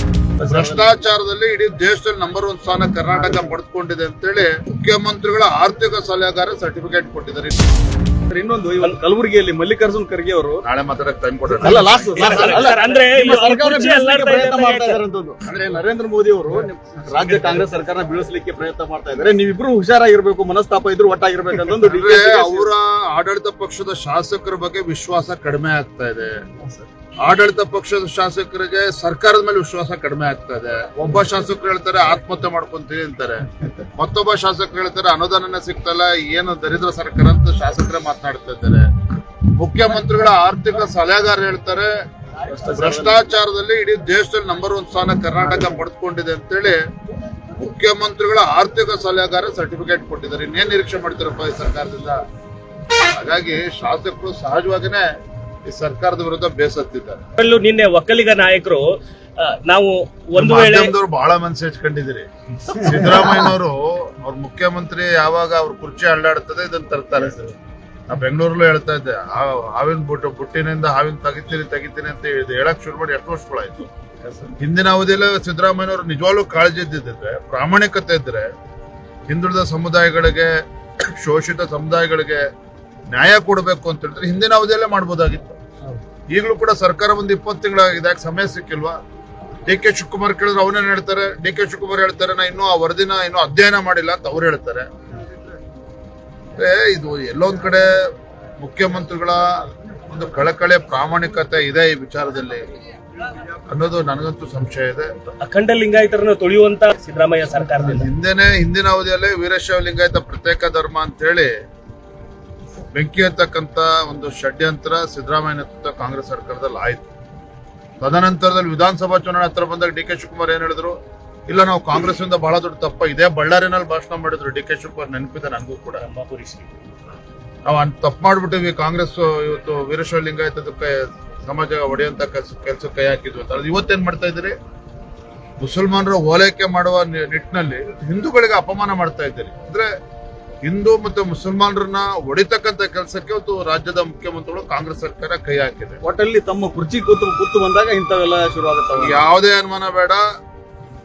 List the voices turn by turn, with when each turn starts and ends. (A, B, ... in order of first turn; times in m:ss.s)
0:00.4-0:00.8 A
0:00.5-0:07.6 B
0:08.3-0:10.6 A
0:10.6-0:12.6 B
0:11.6-0:22.7 A
0:12.1-0:15.0 C
0:21.9-0:26.4 B
0:27.2-0:38.9 B
0:39.5-0:41.9 B
0:42.6-0:43.2 A
0:42.7-0:46.8 B
0:47.6-0:52.2 B
0:53.0-0:55.1 B
0:55.7-0:57.2 B
0:57.4-0:58.8 C
0:59.4-1:00.9 C
1:00.4-1:07.6 B
1:08.1-1:13.9 B
1:14.6-1:18.5 B
1:19.3-1:22.4 B
1:23.1-1:25.6 B
1:26.3-1:29.0 B
1:29.7-1:34.9 B
1:36.6-1:38.1 B
1:38.6-1:42.6 B
1:43.7-1:45.1 B
1:45.3-1:48.1 C
1:47.8-1:51.5 B
1:52.9-1:57.1 B
1:58.0-2:01.0 B
2:01.5-2:06.0 B
2:06.0-2:06.7 C
2:07.7-2:14.5 B
2:15.6-2:19.9 B
2:20.7-2:26.0 B
2:26.0-2:29.3 A
2:29.0-2:30.2 B